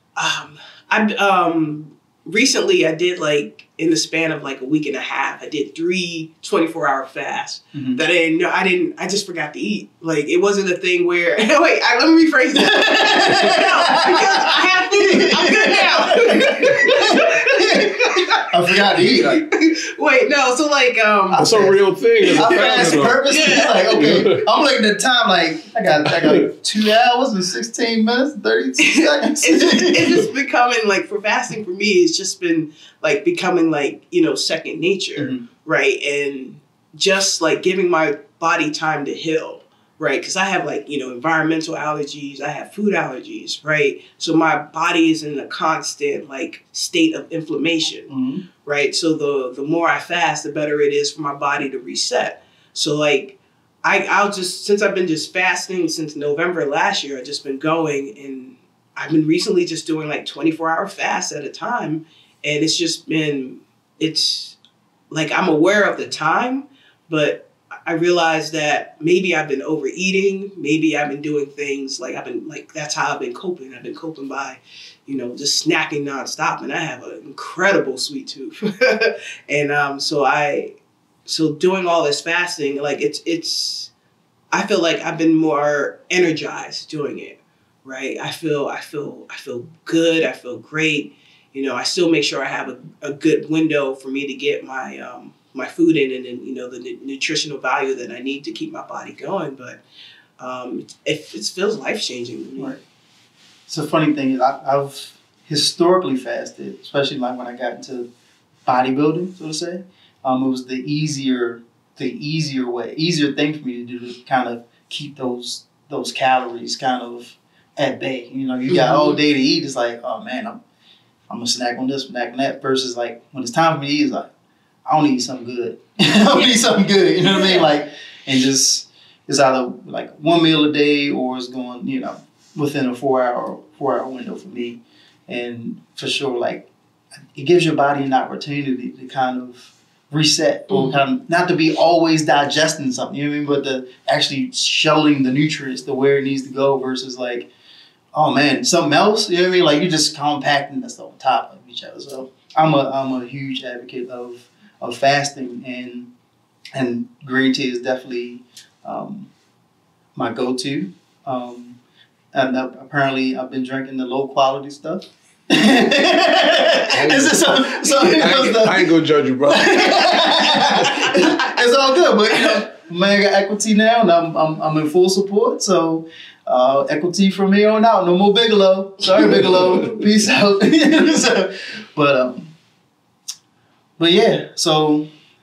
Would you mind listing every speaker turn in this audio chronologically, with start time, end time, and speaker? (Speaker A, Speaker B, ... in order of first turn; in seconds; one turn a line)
Speaker A: 0.2-21.5
Speaker B: 7.7-8.0
Speaker B: 12.5-19.4
Speaker B: 21.3-21.8
Speaker C: 21.4-23.3
Speaker A: 22.3-24.1
Speaker B: 22.3-30.3
Speaker C: 23.9-24.4
Speaker C: 26.0-26.5
Speaker A: 28.8-48.1
Speaker B: 35.1-35.4
Speaker B: 48.1-48.4
Speaker A: 48.6-64.6
Speaker A: 65.1-83.9
Speaker A: 84.5-99.8
Speaker A: 100.4-102.8
Speaker B: 103.7-108.1
Speaker B: 108.6-120.6
Speaker A: 118.7-119.2
Speaker B: 121.3-124.3
Speaker B: 124.8-136.7
Speaker A: 127.2-127.7
Speaker B: 137.3-147.5
Speaker A: 140.7-141.0
Speaker B: 148.1-156.1
Speaker B: 156.7-159.3
Speaker B: 160.1-161.8
Speaker B: 162.3-168.9
Speaker C: 166.9-171.1
Speaker B: 169.4-182.5
Speaker B: 184.0-185.1